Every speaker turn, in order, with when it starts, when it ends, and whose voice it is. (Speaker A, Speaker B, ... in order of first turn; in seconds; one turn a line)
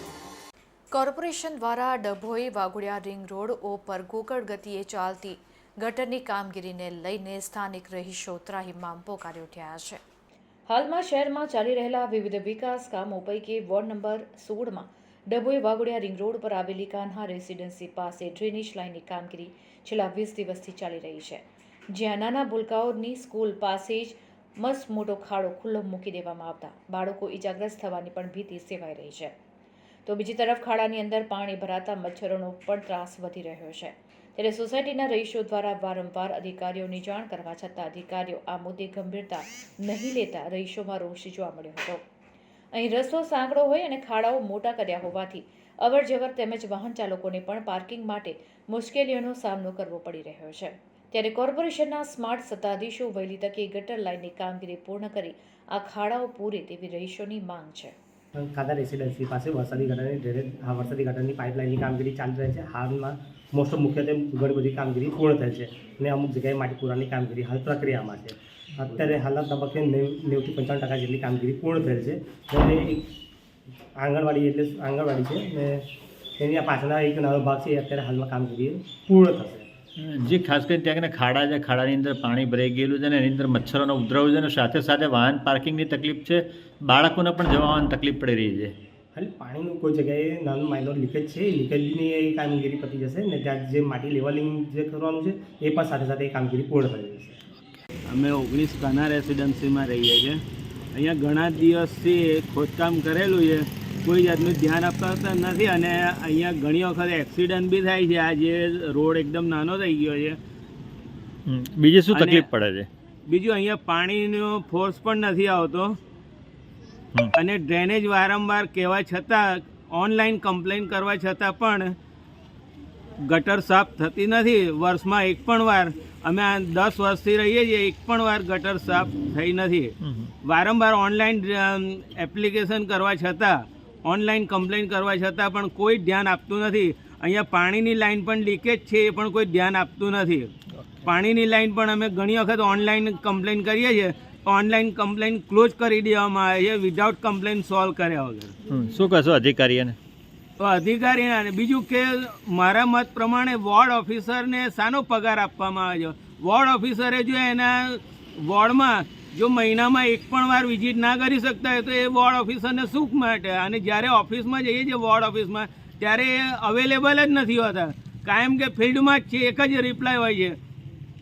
Speaker A: 0.9-10.0
Speaker A: 10.7-29.3
Speaker A: 30.0-42.0
Speaker A: 42.7-57.9
Speaker B: 58.4-73.1
Speaker B: 74.0-75.8
Speaker B: 76.4-79.7
Speaker C: 80.0-88.7
Speaker B: 89.1-97.4
Speaker D: 98.1-100.4
Speaker D: 100.9-110.4
Speaker C: 111.5-112.9
Speaker D: 112.1-112.5
Speaker D: 113.3-116.0
Speaker D: 117.3-121.9
Speaker D: 123.2-140.5
Speaker C: 130.0-130.3
Speaker D: 141.0-148.5
Speaker C: 148.7-150.0
Speaker D: 150.6-170.6